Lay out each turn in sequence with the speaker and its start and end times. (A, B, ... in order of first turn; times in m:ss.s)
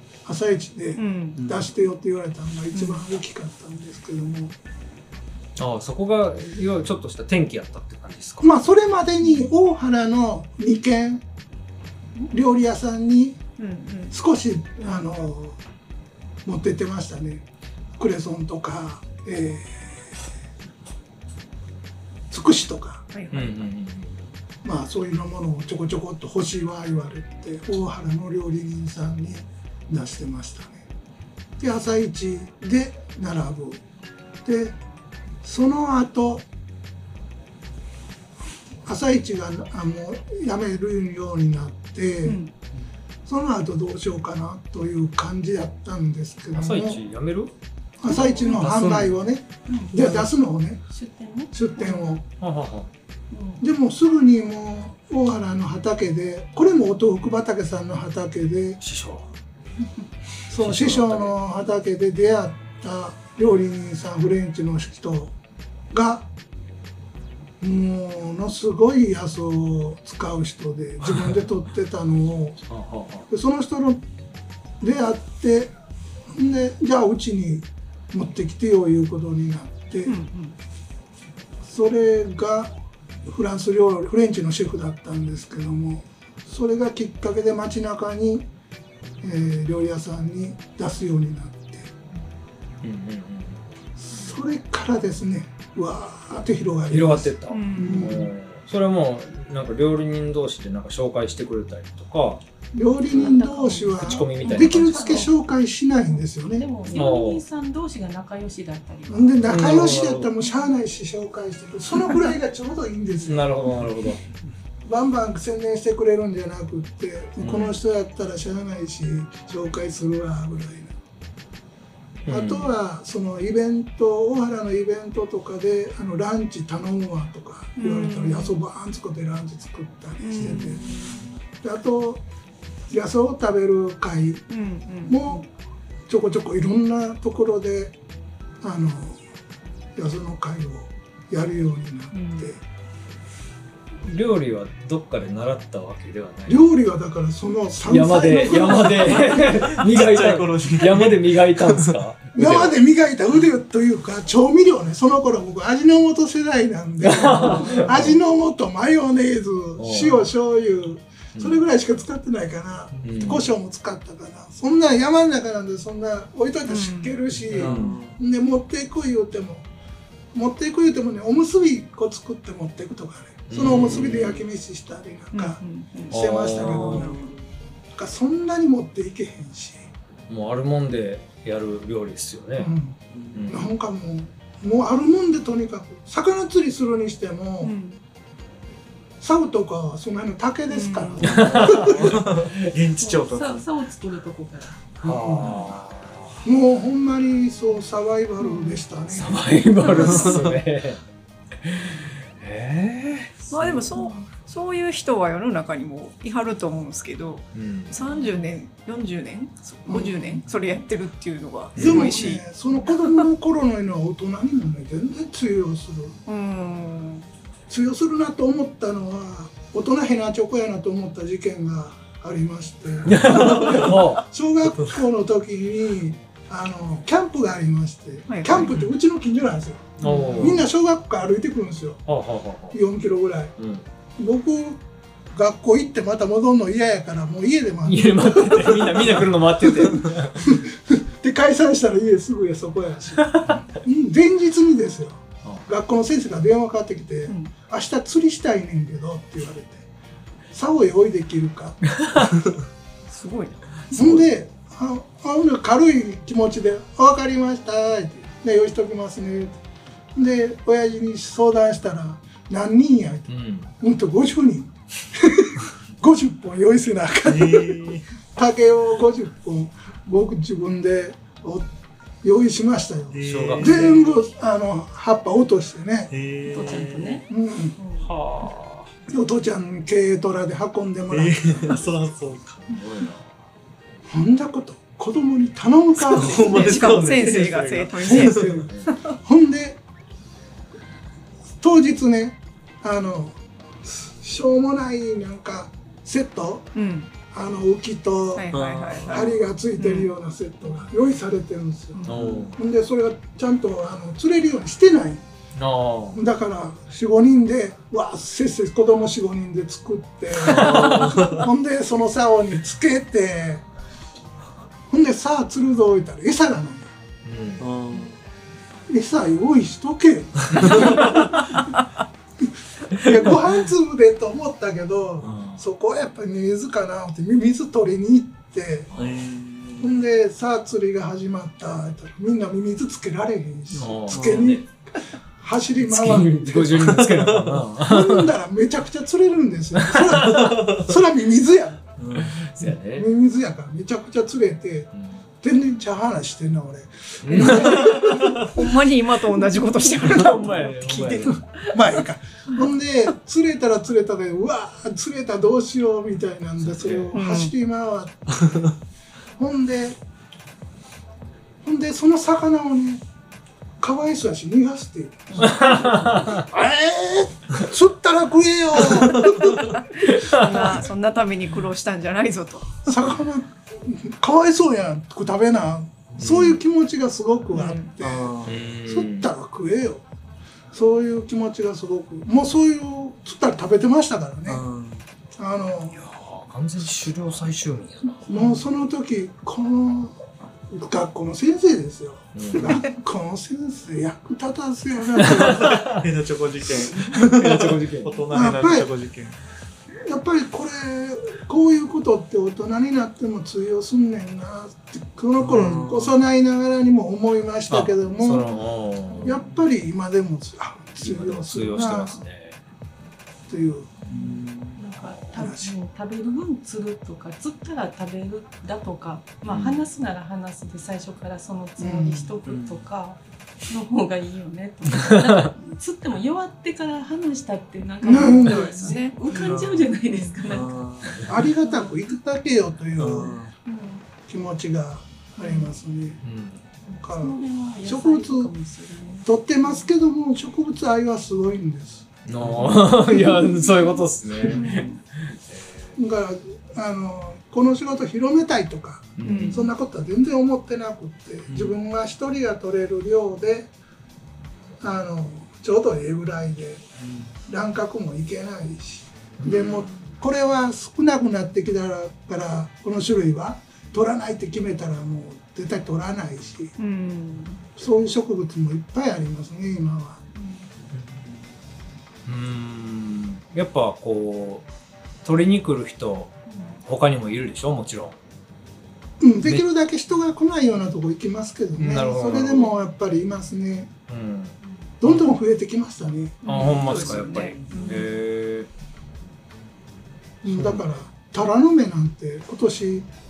0:00.2-0:04.5 A
0:01.0-0:01.4 B
0:01.4-0:01.6 C
0:02.7-0:03.0 B
0:05.6-0:08.5 D
0:08.4-0:11.2 A
0:12.3-0:13.4 A
0:13.6-0:14.2 B
0:14.1-0:15.6 A
0:16.4-0:17.4 A
0:18.0-0:20.1 A
0:22.3-0:23.0 A
0:23.1-0:23.5 B
0:23.3-0:24.2 D
0:24.6-0:30.8 A
0:31.6-0:33.8 A
0:34.4-0:34.8 A
0:35.4-0:36.4 A
0:38.8-0:42.4 A
0:42.2-0:42.5 B
0:43.2-0:47.0 A
0:46.6-0:47.5 D
0:48.0-0:50.8 A
0:48.1-0:49.1 D
0:48.5-0:49.0 C
0:50.9-0:52.0 E
0:51.5-0:52.2 A
0:52.4-0:52.9 D
0:53.3-0:53.6 E
0:53.6-0:58.8 A
0:58.8-0:59.3 D
1:00.5-1:05.3 A
1:00.5-1:01.4 D
1:05.9-1:06.3 A
1:07.6-1:12.6 A
1:12.7-1:13.3 D
1:13.3-1:14.0 A
1:14.8-1:15.7 A
1:16.3-1:20.1 A
1:20.0-1:20.5 B
1:21.6-1:22.7 A
1:23.2-1:28.4 A
1:29.2-1:31.9 A
1:32.8-1:33.6 D
1:34.0-1:38.3 A
1:36.9-1:42.4 D
1:37.5-1:38.3 B
1:42.7-1:47.0 A
1:42.8-1:45.2 E
1:43.1-1:45.3 D
1:46.5-1:49.5 E
1:46.9-1:47.4 D
1:49.1-1:53.7 A
1:49.4-1:50.3 D
1:53.2-1:54.2 D
1:54.8-2:01.0 A
1:57.4-1:57.8 D
2:02.2-2:02.7 D
2:02.3-2:10.8 A
2:07.8-2:08.6 B
2:10.2-2:11.2 B
2:11.6-2:12.2 A
2:12.9-2:14.4 A
2:14.5-2:15.4 B
2:15.0-2:15.5 A
2:16.1-2:18.0 A
2:18.6-2:19.2 A
2:20.0-2:22.6 A
2:22.1-2:22.5 B
2:24.0-2:26.6 D
2:26.4-2:29.8 A
2:27.8-2:32.8 D
2:29.8-2:32.0 C
2:32.3-2:49.6 A
2:37.0-2:38.2 D
2:37.3-2:37.8 B
2:39.8-2:40.3 D
2:43.0-2:43.2 C
2:43.0-2:43.4 D
2:46.7-2:47.2 B
2:47.4-2:48.2 C
2:47.5-2:48.0 D
2:50.3-2:57.2 A
2:53.5-2:54.4 D
2:53.6-2:54.2 C
2:55.3-2:57.2 B
2:56.1-2:57.1 D
2:57.9-2:59.8 A
3:00.3-3:02.7 D
3:02.6-3:07.7 A
3:03.1-3:03.4 C
3:03.3-3:03.7 D
3:07.6-3:08.0 B
3:09.2-3:12.2 A
3:10.7-3:11.5 B
3:11.2-3:12.6 D
3:11.8-3:13.6 C
3:13.0-3:14.8 E
3:15.0-3:16.3 D
3:15.0-3:15.7 A
3:16.4-3:20.2 A
3:18.4-3:18.7 B
3:19.1-3:21.0 D
3:20.2-3:20.5 C
3:21.6-3:23.9 D
3:23.5-3:32.4 B
3:27.6-3:28.0 D
3:29.8-3:30.5 A
3:31.7-3:32.4 D
3:31.8-3:36.2 A
3:32.9-3:33.2 B
3:36.2-3:37.2 B
3:37.7-3:52.0 A
3:43.0-3:44.2 D
3:48.3-3:48.6 B
3:50.0-3:50.6 D
3:50.0-3:50.6 B
3:52.1-3:52.8 D
3:52.7-3:53.5 A
3:53.6-3:53.8 D
3:54.2-4:09.8 A
3:57.8-4:00.6 D
4:03.2-4:03.6 D
4:10.5-4:11.9 A
4:12.0-4:12.3 D
4:13.1-4:14.0 B
4:13.9-4:19.6 A
4:20.1-4:31.7 A
4:23.3-4:23.7 D
4:27.2-4:28.0 C
4:32.2-4:36.1 A
4:33.1-4:34.0 C
4:33.2-4:34.1 D
4:36.1-4:37.2 C
4:36.4-4:37.2 E
4:37.3-4:37.8 A
4:38.0-4:38.9 D
4:39.1-4:41.9 A
4:41.1-4:42.6 C
4:42.7-4:43.2 D
4:44.1-4:46.9 A
4:46.0-4:48.6 C
4:46.1-4:48.9 B
4:48.0-4:49.8 A
4:51.6-4:56.7 A
4:56.7-4:57.1 B
4:57.3-4:58.5 A
4:58.4-5:00.1 B
4:58.5-4:59.4 C
4:59.0-5:05.2 A
5:01.9-5:02.3 B
5:02.1-5:02.6 D
5:02.1-5:02.4 C
5:05.6-5:06.2 D
5:06.1-5:13.6 A
5:10.4-5:11.3 D
5:10.5-5:11.4 C
5:14.9-5:16.9 A
5:17.2-5:17.6 D
5:17.6-5:18.1 C
5:18.9-5:21.3 A
5:20.5-5:21.3 D
5:22.9-5:28.9 A
5:23.0-5:23.3 D
5:25.2-5:25.6 D
5:28.9-5:29.9 C
5:29.8-5:34.7 A
5:33.7-5:34.6 D
5:34.1-5:34.5 C
5:35.4-5:37.0 A
5:35.8-5:38.3 D
5:36.9-5:37.6 C
5:37.8-5:41.9 A
5:39.8-5:40.5 D
5:40.5-5:40.8 C
5:42.0-5:42.4 C
5:42.2-5:43.1 D
5:42.6-5:48.8 A
5:45.0-5:45.2 D
5:47.2-5:48.0 D
5:47.8-5:48.3 C
5:48.3-5:51.7 B
5:49.3-5:50.3 A
5:50.0-5:51.4 D
5:51.1-5:58.6 A
5:56.6-5:57.1 D
5:57.1-5:57.5 B
5:59.4-6:00.0 A
6:01.6-6:03.0 A
6:03.8-6:09.8 A
6:05.4-6:06.4 D
6:09.0-6:09.5 C
6:09.7-6:12.9 B
6:10.1-6:10.7 D
6:12.8-6:20.0 A
6:16.2-6:16.6 D
6:17.5-6:17.9 B
6:18.0-6:18.6 C
6:18.4-6:19.3 D
6:20.7-6:24.6 A
6:24.5-6:25.0 C
6:25.4-6:26.0 A
6:25.9-6:28.5 D
6:28.3-6:36.0 A
6:32.3-6:32.8 D
6:35.2-6:36.0 D
6:35.8-6:39.4 C
6:37.1-6:38.2 D
6:38.3-6:38.9 A
6:40.0-6:48.5 A
6:45.4-6:46.1 C
6:47.7-6:49.4 D
6:49.2-6:52.2 A
6:51.0-6:52.6 D
6:53.5-6:54.0 A
6:54.1-7:12.0 E
6:54.1-6:54.8 C
6:55.3-6:55.7 A
6:59.5-6:59.8 D
7:01.8-7:02.3 A
7:02.5-7:02.8 C
7:05.0-7:05.5 D
7:08.0-7:08.9 A
7:08.1-7:09.2 B
7:09.3-7:09.9 C
7:10.5-7:11.3 C
7:11.2-7:13.4 A
7:13.0-7:13.5 C
7:13.6-7:14.0 E
7:14.3-7:16.2 A
7:16.2-7:16.6 D
7:16.9-7:19.9 E
7:16.9-7:18.5 A
7:19.2-7:22.1 A
7:22.3-7:25.9 D
7:22.4-7:22.8 C
7:23.1-7:23.7 A
7:24.4-7:24.9 B
7:25.9-7:33.7 A
7:29.2-7:29.7 D
7:29.2-7:29.6 B
7:31.5-7:31.7 C
7:34.8-7:36.9 A
7:37.0-7:37.3 C
7:37.4-7:46.7 A
7:39.4-7:39.7 D
7:46.8-7:47.6 B
7:47.8-7:50.2 A
7:52.2-7:54.6 D
7:55.2-7:56.3 D
7:56.8-7:58.2 D
7:59.2-8:03.9 A
8:01.8-8:02.7 D
8:04.1-8:05.2 D
8:05.0-8:07.1 A
8:06.4-8:08.1 B
8:06.4-8:08.7 D
8:07.4-8:07.7 C
8:10.4-8:13.1 A
8:10.4-8:10.8 D